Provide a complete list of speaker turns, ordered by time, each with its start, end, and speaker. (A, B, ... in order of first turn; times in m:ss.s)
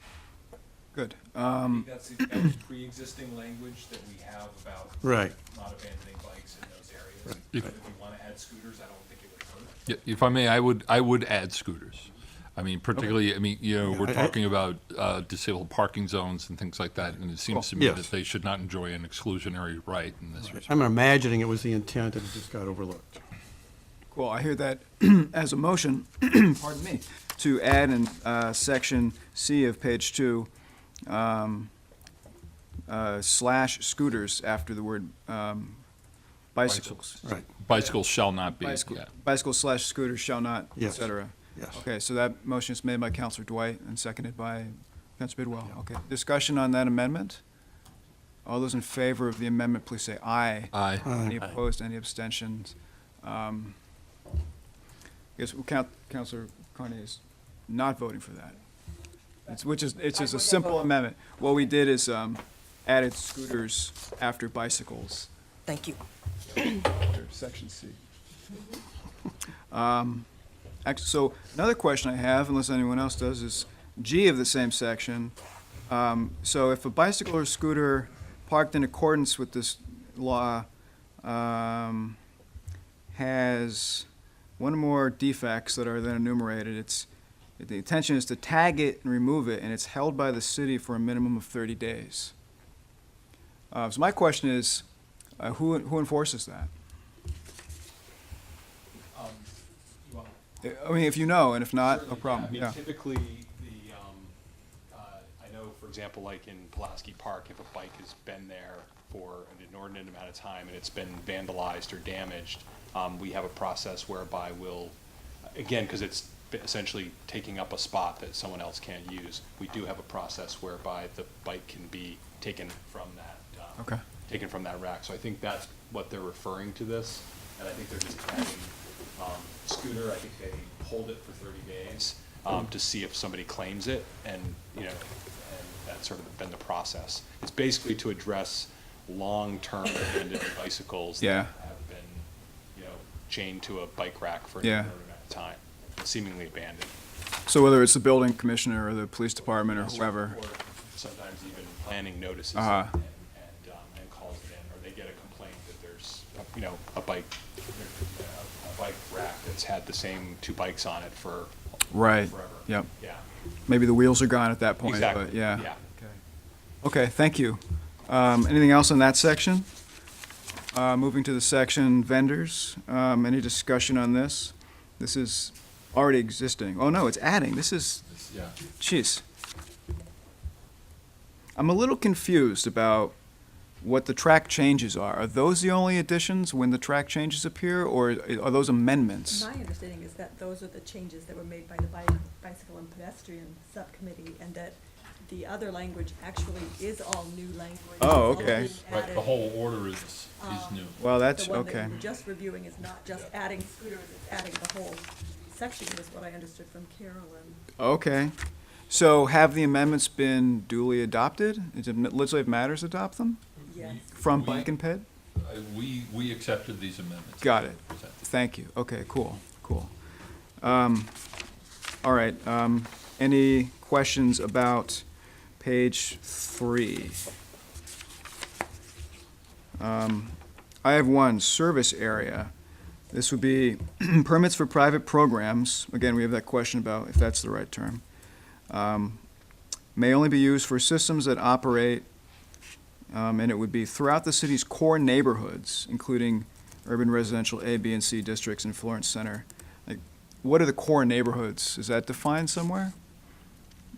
0:00.9-0:01.9 A
0:01.5-0:10.0 B
0:05.0-0:05.3 C
0:09.9-0:20.8 D
0:13.8-0:14.4 C
0:17.8-0:18.1 C
0:20.5-0:23.2 C
0:24.1-0:30.5 A
0:31.1-0:31.7 A
0:32.9-0:35.8 A
0:36.6-0:38.0 A
0:36.7-0:37.0 D
0:37.6-0:39.1 D
0:38.6-0:47.4 A
0:40.8-0:41.8 C
0:48.4-0:53.8 A
0:50.7-0:51.2 D
0:51.0-0:51.4 C
0:55.4-0:58.6 A
0:59.5-1:05.3 A
1:06.5-1:08.0 A
1:09.7-1:10.3 A
1:10.8-1:15.4 A
1:15.9-1:20.7 A
1:21.2-1:22.2 A
1:23.1-1:24.1 A
1:24.6-1:32.3 A
1:33.7-1:34.8 A
1:35.4-1:36.7 A
1:39.1-1:40.4 B
1:40.6-1:42.8 A
1:41.8-1:44.3 B
1:44.9-1:55.0 B
1:55.5-2:26.9 B
2:21.2-2:21.5 A
2:24.6-2:24.9 A
2:27.5-2:30.4 A
2:29.5-2:43.2 B
2:32.6-2:32.9 A
2:41.9-2:42.9 A
2:43.7-2:46.2 A
2:44.8-2:45.8 B
2:46.8-2:49.7 A
2:50.7-2:58.0 A
2:58.1-2:58.6 D
2:58.8-2:59.2 A
3:01.6-3:03.2 A
3:03.8-3:09.5 A
3:09.3-3:19.5 E
3:18.0-3:18.8 A
3:18.4-3:21.1 D
3:20.4-3:27.7 E
3:21.0-3:22.0 A
3:27.8-3:28.3 A
3:28.9-3:33.4 A
3:33.6-3:34.0 E
3:33.7-3:34.7 D
3:34.2-3:35.0 A
3:35.4-3:38.2 D
3:37.4-3:39.9 A
3:40.6-3:41.1 A
3:42.0-3:45.0 A
3:45.6-3:47.2 A
3:49.8-3:52.5 A
3:53.1-3:58.0 A
3:58.7-3:59.2 A
4:00.0-4:02.1 A
4:03.1-4:12.9 A